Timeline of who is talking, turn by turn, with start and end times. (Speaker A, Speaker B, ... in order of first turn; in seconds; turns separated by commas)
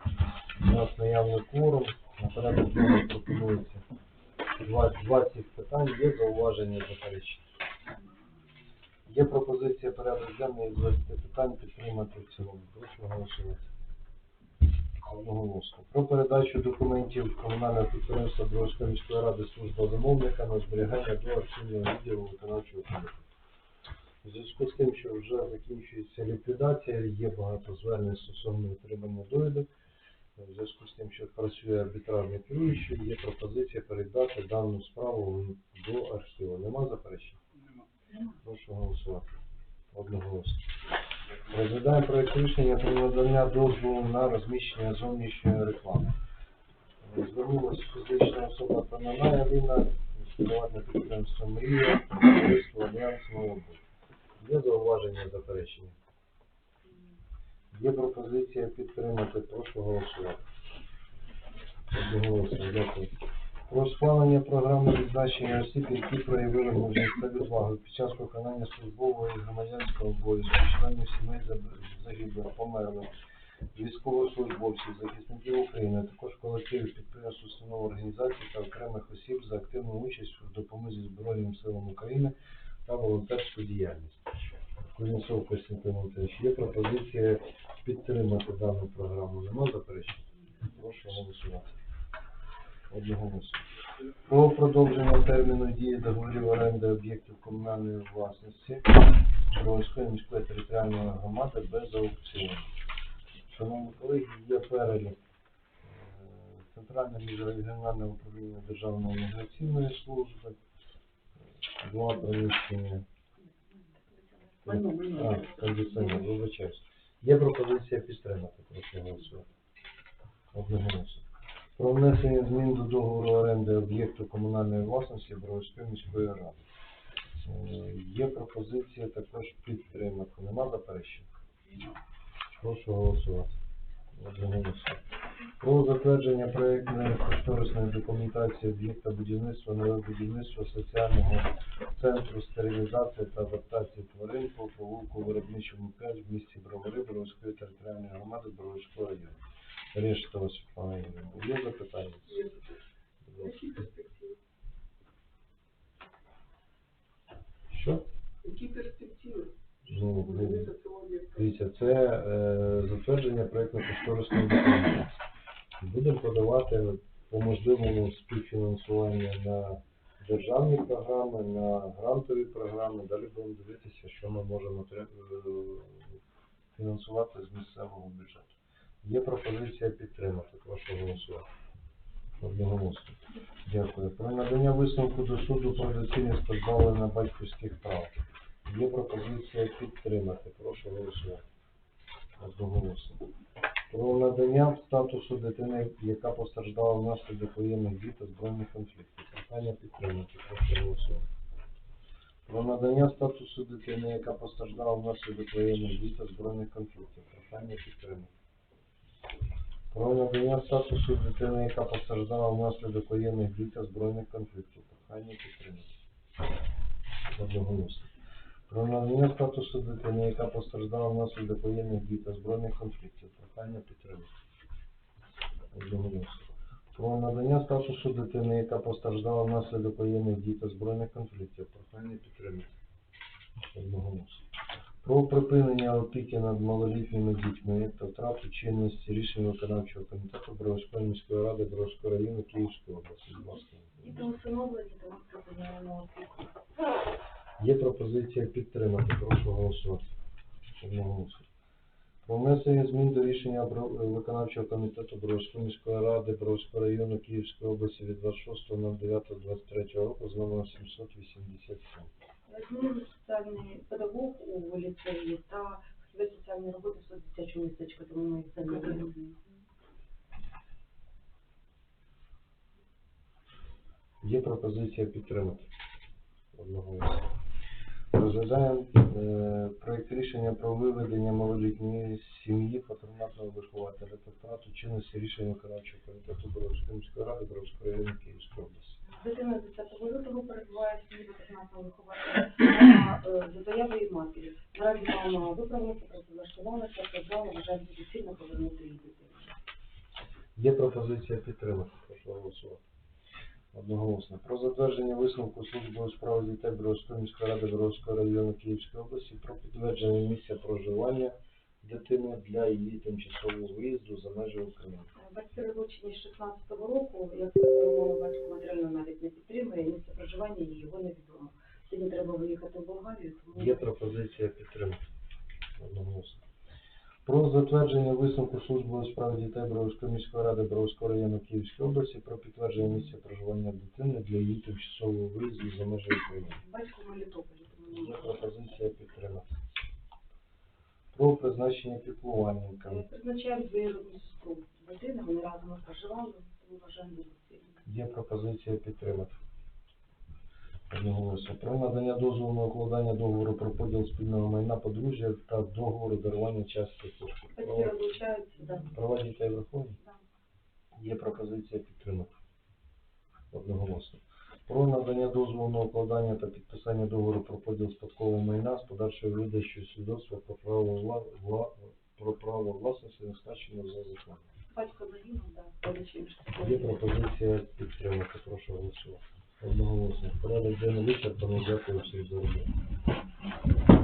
Speaker A: 0.6-3.8, Speaker A: 4.6-7.5, Speaker A: 9.1-13.6, Speaker A: 15.0-23.3, Speaker A: 24.2-29.7, Speaker A: 30.4-37.4, Speaker A: 38.4-39.3, Speaker A: 39.9-40.7, Speaker A: 41.5-46.1, Speaker A: 47.0-53.8, Speaker A: 54.4-55.9, Speaker A: 57.7-60.4, Speaker A: 61.9-63.1, Speaker A: 63.7-73.1, Speaker A: 73.7-82.3, Speaker A: 82.8-84.2, Speaker A: 84.9-91.7, Speaker A: 92.9-93.6, Speaker A: 94.2-99.0, Speaker A: 99.5-102.7, Speaker A: 103.5-105.2, Speaker A: 105.8-110.6, Speaker A: 111.7-113.0, Speaker B: 114.6-115.8, Speaker A: 114.6-119.5, Speaker A: 120.5-121.2, Speaker A: 121.8-126.7, Speaker A: 127.4-131.3, Speaker A: 132.6-133.5, Speaker A: 134.2-135.0, Speaker A: 135.6-149.4, Speaker A: 149.9-152.4, Speaker A: 153.2-153.7, Speaker B: 153.4-154.4, Speaker A: 157.7-158.0, Speaker B: 158.4-159.5, Speaker A: 159.8-160.7, Speaker B: 160.2-161.3, Speaker A: 161.3-165.2, Speaker A: 165.8-176.2, Speaker A: 176.7-181.4, Speaker A: 182.4-188.1, Speaker A: 188.6-191.4, Speaker A: 192.4-193.2, Speaker A: 193.9-201.2, Speaker A: 202.4-208.3, Speaker A: 209.9-215.9, Speaker A: 217.3-218.1, Speaker A: 218.7-224.3, Speaker A: 225.7-232.7, Speaker A: 233.7-234.4, Speaker A: 235.0-244.3, Speaker C: 244.0-246.5, Speaker A: 247.6-250.0, Speaker A: 250.8-251.5, Speaker A: 252.2-262.1, Speaker C: 262.5-269.2, Speaker A: 274.2-275.7, Speaker A: 276.5-277.3, Speaker A: 278.1-289.0, Speaker C: 289.0-299.6, Speaker A: 300.6-302.8, Speaker A: 303.7-315.1, Speaker C: 315.1-323.9, Speaker A: 323.5-325.0, Speaker A: 325.8-326.4, Speaker A: 327.2-336.6, Speaker C: 336.6-338.5, Speaker A: 337.9-339.5, Speaker A: 341.1-343.0, Speaker C: 342.8-347.8, Speaker A: 347.8-349.3, Speaker A: 350.9-357.9, Speaker C: 357.5-359.0, Speaker A: 358.9-360.0, Speaker A: 360.9-362.3, Speaker A: 363.5-374.4, Speaker C: 374.7-377.0, Speaker A: 376.6-382.7